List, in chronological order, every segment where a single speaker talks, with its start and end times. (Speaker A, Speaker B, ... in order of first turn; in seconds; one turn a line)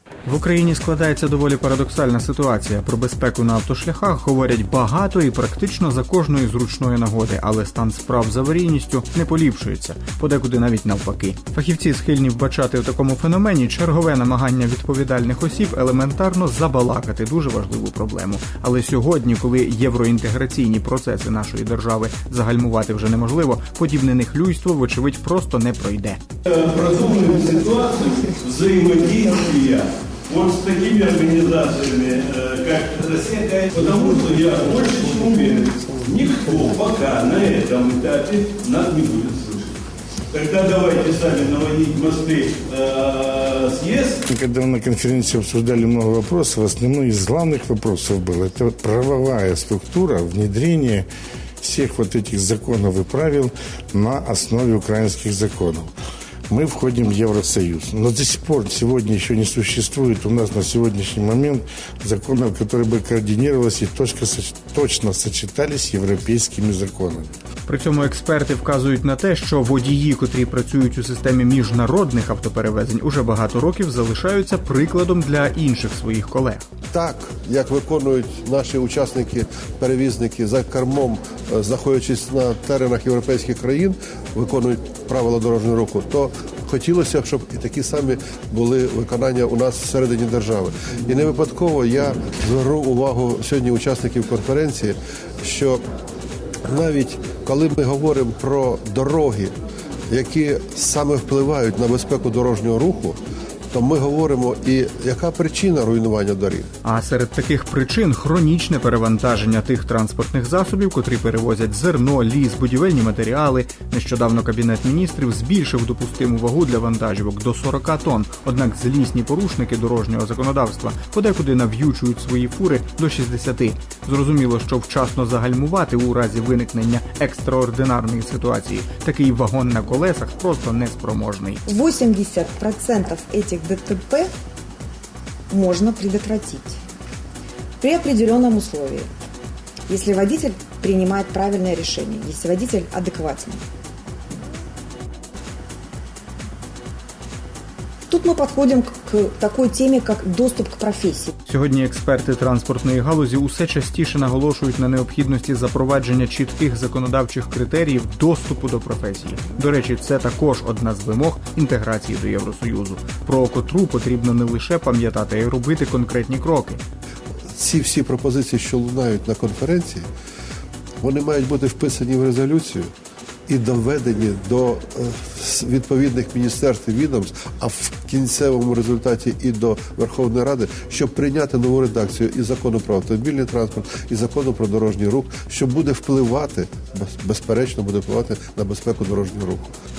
Speaker A: 0.2-26.2
Speaker B: 26.5-39.7
Speaker B: 40.3-44.2
Speaker C: 44.3-51.1
Speaker C: 51.6-55.9
Speaker C: 56.5-67.3
Speaker A: 67.7-76.7
Speaker D: 76.9-95.8
Speaker D: 96.7-99.5
Speaker D: 100.1-103.2
Speaker D: 103.7-106.7
Speaker A: 106.8-131.7
Speaker E: 131.7-134.3
Speaker E: 135.5-136.8
Speaker E: 137.8-139.1
Speaker E: 139.9-143.6
Speaker E: 148.1-151.3
Speaker A: 151.4-166.8
Speaker D: 167.6-170.1
Speaker D: 171.0-172.9
Speaker D: 173.5-189.7